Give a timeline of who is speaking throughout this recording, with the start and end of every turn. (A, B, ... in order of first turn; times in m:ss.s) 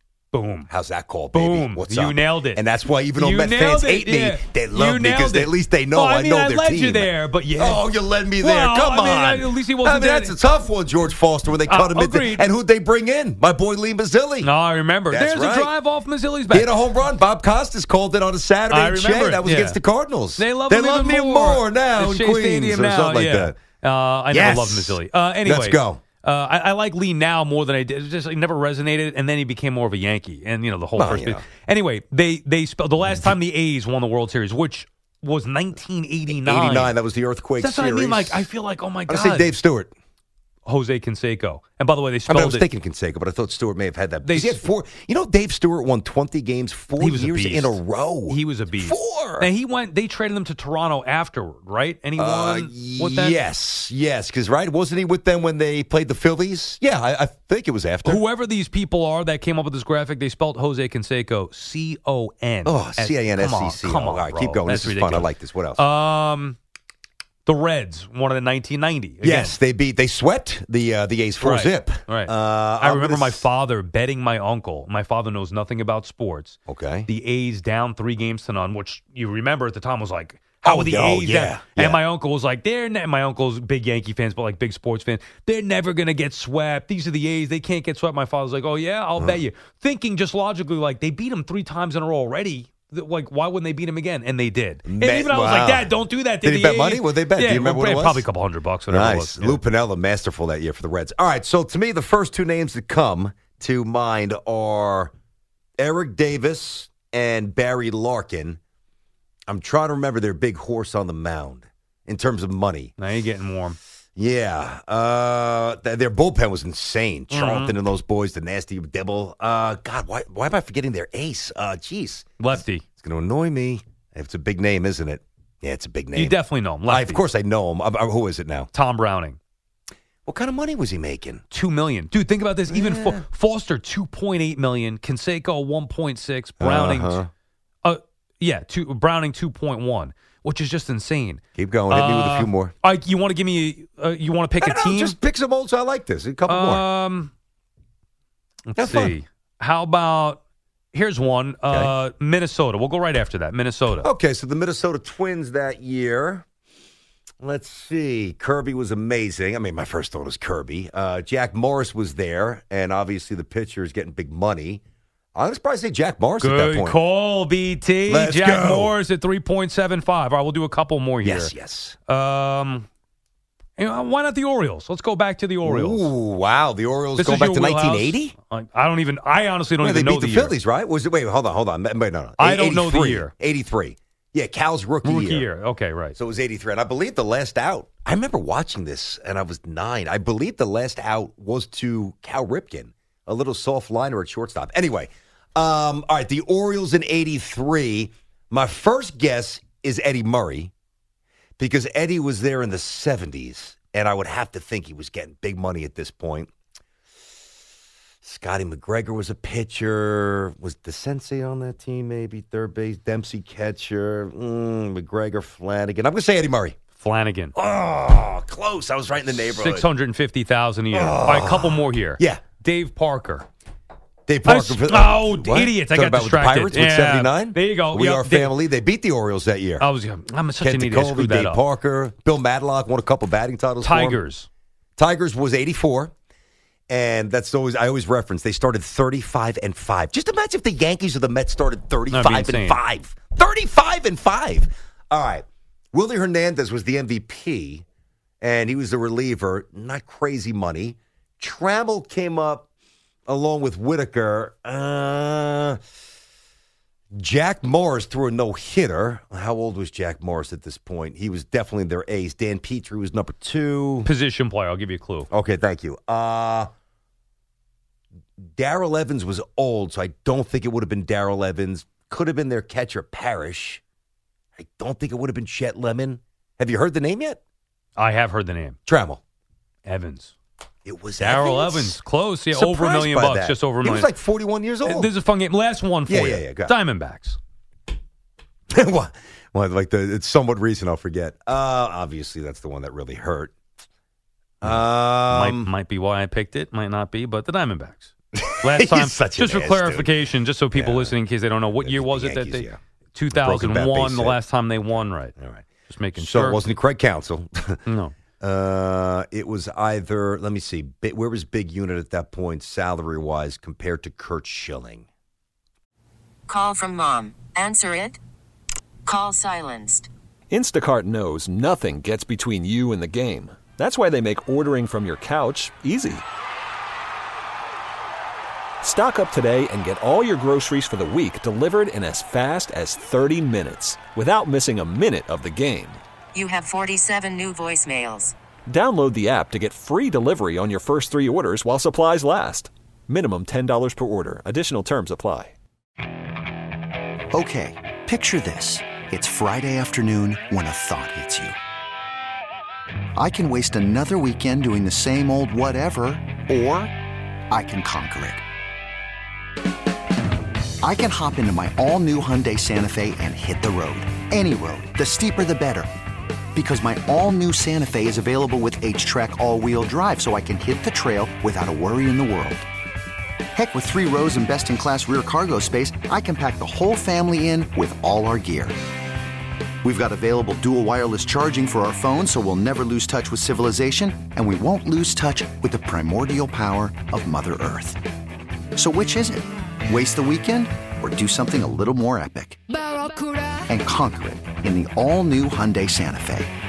0:00.3-0:00.7 A
0:00.7-0:14.5 B
0:01.3-0:02.6 A
0:03.1-0:07.8 A
0:08.4-0:10.4 A
0:11.7-0:12.5 A
0:14.4-0:16.7 A
0:15.1-0:15.7 B
0:16.5-0:23.6 B
0:18.7-0:19.8 A
0:20.4-0:37.0 A
0:24.3-0:26.0 B
0:31.0-0:31.4 B
0:36.3-0:38.4 B
0:37.6-0:39.5 A
0:39.1-0:39.9 B
0:40.6-0:42.7 A
0:42.3-0:49.5 B
0:44.2-0:44.6 A
0:47.0-0:53.4 A
0:52.2-0:58.2 B
0:58.0-1:06.6 A
1:02.6-1:05.8 B
1:07.4-1:09.6 A
1:09.2-1:13.4 B
1:11.4-1:39.6 A
1:16.7-1:17.1 B
1:20.6-1:22.0 B
1:34.8-1:38.2 B
1:38.9-1:45.1 B
1:45.8-1:48.6 B
1:49.5-1:52.9 B
1:53.0-1:53.8 A
1:54.2-2:06.4 B
1:57.3-1:57.8 A
2:02.4-2:02.8 A
2:06.1-2:07.2 A
2:06.9-2:08.7 B
2:08.7-2:09.4 A
2:10.2-2:11.4 B
2:11.5-2:17.2 A
2:12.7-2:13.2 B
2:16.6-2:17.3 B
2:17.8-2:25.2 A
2:21.5-2:22.7 B
2:24.6-2:26.8 B
2:26.5-2:27.3 A
2:28.7-2:30.4 A
2:28.8-2:29.1 B
2:30.9-2:34.1 A
2:34.0-2:36.4 B
2:37.4-2:44.8 B
2:45.3-2:47.0 B
2:46.4-2:51.5 A
2:48.1-2:48.9 B
2:51.2-2:52.0 B
2:52.1-2:52.9 A
2:53.8-2:56.1 A
2:55.6-2:58.3 B
2:57.2-3:00.5 A
2:59.8-3:05.5 B
3:02.4-3:03.3 A
3:05.0-3:06.2 A
3:06.2-3:20.7 B
3:21.6-3:26.5 B
3:28.2-3:36.8 B
3:37.0-3:37.5 A
3:37.6-3:39.9 B
3:39.3-3:43.5 A
3:40.9-3:42.4 B
3:44.3-3:49.8 B
3:44.4-3:48.6 A
3:49.8-3:51.6 A
3:50.6-3:54.2 B
3:53.8-3:54.5 A
3:55.0-3:56.1 B
3:56.9-4:07.8 B
4:02.1-4:02.8 A
4:08.4-4:12.7 B
4:13.3-4:15.8 B
4:17.2-4:24.1 B
4:24.0-4:25.3 A
4:25.3-4:26.7 B
4:28.6-4:33.8 B
4:34.6-4:37.4 B
4:38.0-4:38.8 A
4:38.8-4:39.2 B
4:39.8-4:40.3 A
4:40.8-4:42.0 B
4:41.2-4:44.1 A
4:42.5-4:45.1 B
4:44.8-4:47.4 A
4:46.1-4:46.7 B
4:48.7-4:53.5 B
4:54.6-4:55.7 B
4:54.6-4:58.1 A
4:58.4-5:00.2 B
4:58.6-5:05.4 A
5:00.7-5:01.2 B
5:01.8-5:02.8 B
5:03.3-5:04.4 B
5:05.4-5:05.6 B
5:05.9-5:06.6 A
5:06.2-5:07.8 B
5:07.9-5:08.1 A
5:08.4-5:15.0 B
5:16.5-5:18.2 C
5:19.0-5:20.1 C
5:20.5-5:26.2 D
5:28.8-5:36.0 D
5:36.3-5:38.3 C
5:38.7-5:45.5 D
5:47.3-5:51.6 E
5:53.2-5:56.9 E
5:57.5-5:58.4 E
6:00.8-6:05.9 E
6:06.5-6:12.6 E
6:13.5-6:18.8 E
6:19.8-6:28.0 E
6:28.8-6:32.6 E
6:33.7-6:36.5 E